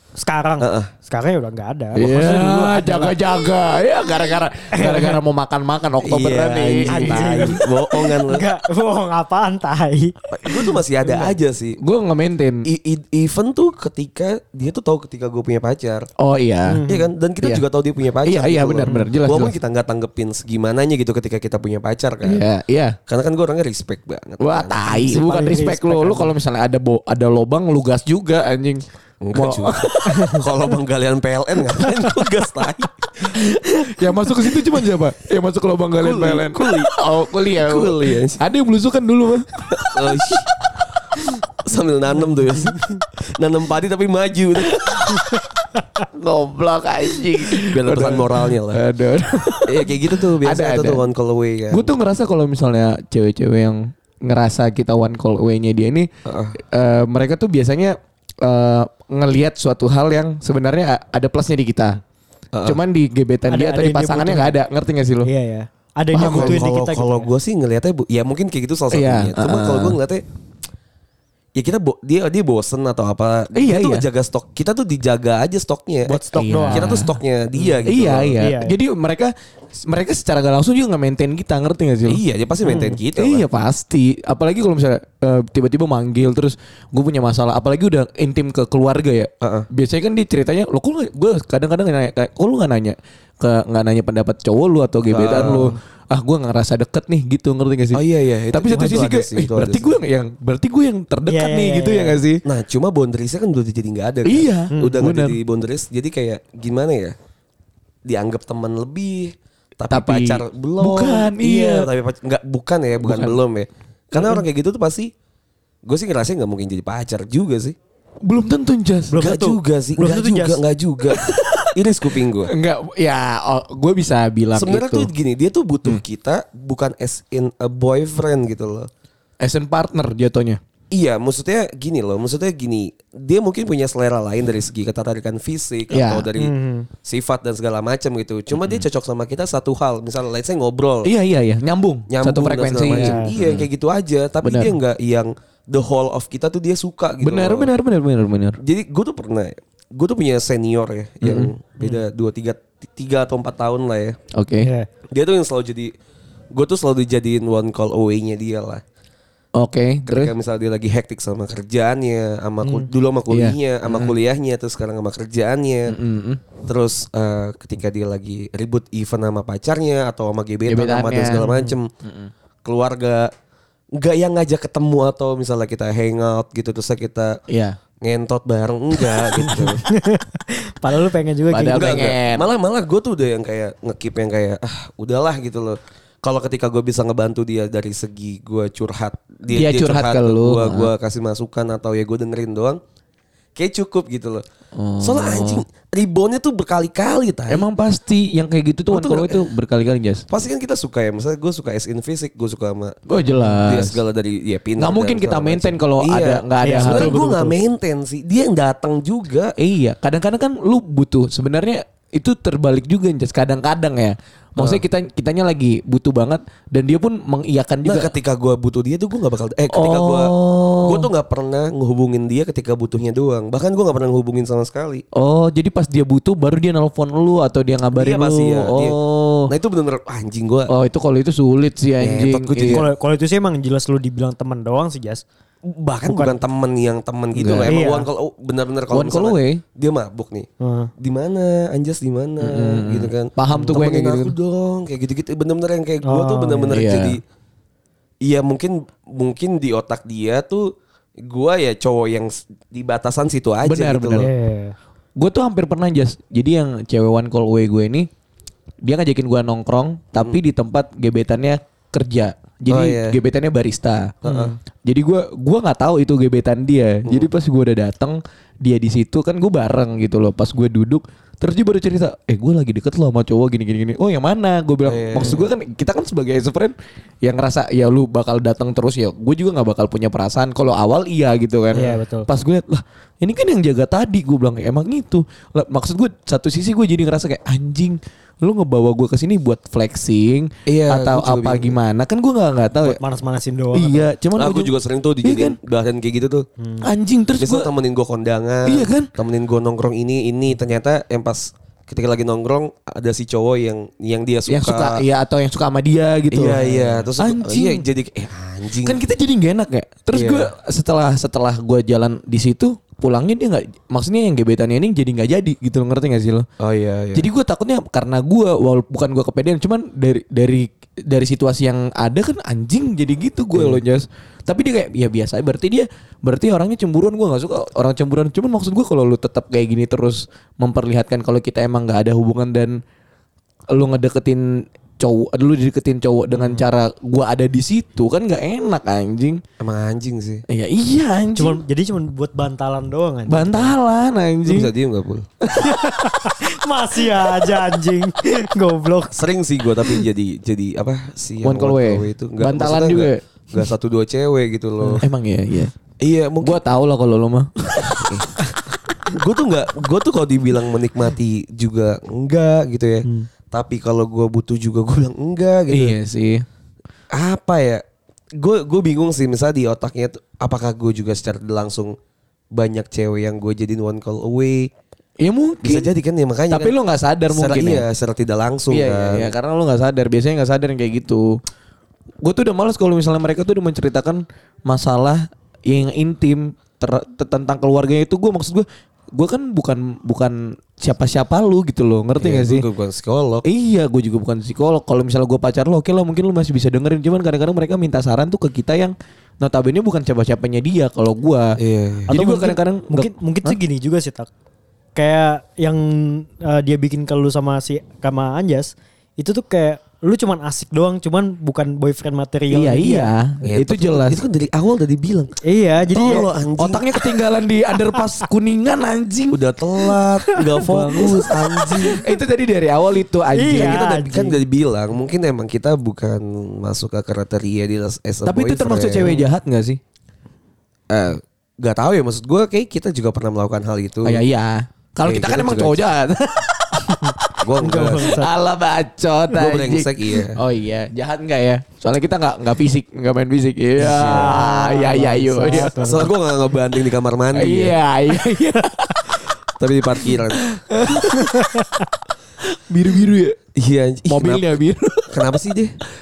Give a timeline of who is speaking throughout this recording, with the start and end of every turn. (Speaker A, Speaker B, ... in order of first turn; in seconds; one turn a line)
Speaker A: 0.2-3.2
Speaker B: 0.6-0.9
Speaker C: 1.9-7.6
Speaker A: 4.7-5.2
Speaker B: 6.0-8.4
Speaker A: 6.8-10.1
Speaker B: 10.3-11.8
Speaker A: 11.1-11.4
Speaker C: 11.8-12.6
Speaker B: 12.6-16.1
Speaker C: 16.2-16.8
Speaker A: 16.7-17.1
Speaker B: 16.9-22.4
Speaker C: 18.2-19.6
Speaker C: 22.2-23.0
Speaker B: 23.1-25.2
Speaker C: 24.4-28.8
Speaker A: 24.9-26.3
Speaker B: 29.2-33.3
Speaker C: 29.3-30.5
Speaker C: 33.3-40.4
Speaker B: 36.0-36.9
Speaker B: 37.5-38.4
Speaker B: 39.9-40.5
Speaker B: 41.6-42.8
Speaker B: 43.4-45.0
Speaker C: 44.7-45.3
Speaker C: 46.1-51.1
Speaker B: 47.6-48.8
Speaker B: 49.7-52.0
Speaker C: 51.7-56.1
Speaker B: 56.2-56.6
Speaker C: 56.7-62.0
Speaker B: 62.5-62.8
Speaker C: 62.6-65.3
Speaker A: 63.5-64.6
Speaker A: 65.2-67.3
Speaker C: 66.1-66.6
Speaker B: 66.2-70.2
Speaker C: 68.9-70.0
Speaker B: 71.6-78.4
Speaker C: 73.5-74.0
Speaker A: 76.1-76.9
Speaker C: 76.3-77.2
Speaker C: 77.9-79.3
Speaker A: 78.4-78.8
Speaker C: 79.8-82.2
Speaker B: 82.1-83.5
Speaker A: 82.6-83.0
Speaker C: 83.2-102.4
Speaker B: 89.4-89.7
Speaker B: 95.1-95.8
Speaker A: 95.4-95.8
Speaker B: 97.9-100.0
Speaker A: 98.7-99.1
Speaker A: 101.3-102.2
Speaker B: 102.5-107.1
Speaker C: 104.3-105.4
Speaker A: 104.7-105.0
Speaker B: 108.1-115.1
Speaker C: 109.9-111.9
Speaker C: 113.0-113.4
Speaker C: 114.2-114.4
Speaker B: 115.9-117.8
Speaker C: 118.2-119.3
Speaker A: 119.1-120.6
Speaker B: 119.2-122.5
Speaker C: 121.1-121.7
Speaker C: 122.5-125.1
Speaker B: 124.5-128.9
Speaker C: 129.4-130.6
Speaker B: 130.9-141.1
Speaker C: 135.9-136.3
Speaker A: 136.4-136.9
Speaker C: 138.5-138.8
Speaker C: 141.1-143.7
Speaker B: 142.1-147.7
Speaker A: 142.9-143.3
Speaker C: 144.4-144.8
Speaker C: 147.2-148.6
Speaker B: 148.6-154.2
Speaker C: 151.2-151.5
Speaker C: 154.3-154.7
Speaker A: 154.6-154.9
Speaker B: 155.1-155.9
Speaker B: 156.5-158.8
Speaker C: 159.6-160.3
Speaker B: 160.1-165.9
Speaker A: 162.6-162.9
Speaker C: 163.3-164.2
Speaker C: 165.9-166.4
Speaker B: 166.7-171.9
Speaker C: 170.7-171.5
Speaker A: 171.4-171.8
Speaker C: 172.0-172.3
Speaker B: 172.7-173.3
Speaker B: 173.9-177.4
Speaker C: 177.5-177.8
Speaker B: 178.0-179.8
Speaker A: 179.8-182.1
Speaker C: 181.5-182.5
Speaker B: 181.7-192.8
Speaker C: 189.5-190.9
Speaker B: 193.6-194.4
Speaker C: 194.8-195.6
Speaker B: 195.0-197.7
Speaker C: 197.5-200.2
Speaker B: 198.9-199.4
Speaker B: 200.3-202.9
Speaker C: 203.1-204.0
Speaker B: 203.5-209.5
Speaker C: 204.8-207.6
Speaker A: 206.6-207.3
Speaker C: 209.6-218.1
Speaker B: 214.6-214.8
Speaker B: 217.8-225.0
Speaker C: 219.7-221.1
Speaker C: 225.2-229.5
Speaker B: 227.9-230.7
Speaker C: 230.7-232.8
Speaker B: 232.0-232.9
Speaker A: 232.6-235.2
Speaker B: 235.7-247.2
Speaker A: 236.1-236.4
Speaker C: 237.4-237.7
Speaker A: 237.7-238.1
Speaker C: 238.9-239.6
Speaker A: 240.6-240.9
Speaker C: 242.4-244.3
Speaker A: 246.0-246.8
Speaker C: 246.7-247.2
Speaker B: 248.2-254.3
Speaker C: 253.6-254.3
Speaker A: 254.2-254.8
Speaker C: 255.2-258.1
Speaker C: 258.8-293.0
Speaker B: 262.7-263.2
Speaker B: 264.2-264.6
Speaker B: 274.9-275.4
Speaker A: 281.8-282.3
Speaker B: 290.7-291.8
Speaker A: 292.8-294.1
Speaker C: 293.7-294.7
Speaker B: 294.4-296.5
Speaker C: 295.2-295.6
Speaker A: 296.6-296.9
Speaker C: 296.8-297.7
Speaker B: 297.4-305.0
Speaker C: 298.7-299.1
Speaker C: 304.5-307.8
Speaker B: 306.3-309.0
Speaker C: 308.8-316.5
Speaker B: 310.1-310.5
Speaker B: 316.6-317.3
Speaker C: 317.1-332.8
Speaker B: 323.5-323.8
Speaker C: 333.7-334.4
Speaker C: 335.0-339.4
Speaker A: 336.3-336.6
Speaker B: 339.6-340.4
Speaker C: 340.5-341.6
Speaker A: 341.4-343.8
Speaker C: 343.3-344.7
Speaker B: 344.4-345.3
Speaker A: 345.6-349.2
Speaker B: 349.1-355.1
Speaker C: 351.4-353.2
Speaker C: 355.0-355.7
Speaker B: 356.0-356.6
Speaker C: 356.4-358.1
Speaker B: 357.8-358.3
Speaker B: 359.1-366.0
Speaker C: 365.7-366.4
Speaker B: 367.1-367.8
Speaker B: 368.4-372.0
Speaker B: 372.5-374.7
Speaker C: 375.2-375.9
Speaker B: 375.6-376.8
Speaker C: 376.5-377.9
Speaker B: 377.3-379.3
Speaker C: 378.7-381.4
Speaker C: 382.2-392.7
Speaker B: 392.2-393.5
Speaker C: 393.4-401.6
Speaker B: 401.6-402.2
Speaker A: 402.1-404.3
Speaker C: 402.1-403.6
Speaker A: 404.9-413.1
Speaker C: 412.5-414.2
Speaker B: 413.4-415.4
Speaker A: 415.4-416.3
Speaker B: 415.9-416.9
Speaker C: 416.0-419.4
Speaker B: 419.3-422.0
Speaker A: 420.4-422.0
Speaker C: 420.6-421.3
Speaker C: 421.9-423.8
Speaker A: 423.3-424.4
Speaker B: 423.5-429.2
Speaker C: 428.2-429.8
Speaker B: 430.9-434.2
Speaker C: 434.0-436.8
Speaker B: 435.0-435.8
Speaker A: 436.9-438.3
Speaker B: 437.4-438.2
Speaker C: 438.0-446.1
Speaker B: 439.3-440.4
Speaker B: 443.8-444.4
Speaker A: 443.8-446.1
Speaker B: 445.5-447.8
Speaker C: 447.4-449.1
Speaker B: 449.6-450.5
Speaker C: 450.1-451.6
Speaker A: 451.0-451.8
Speaker C: 452.7-453.4
Speaker B: 453.6-454.5
Speaker C: 454.1-455.2
Speaker B: 455.1-455.8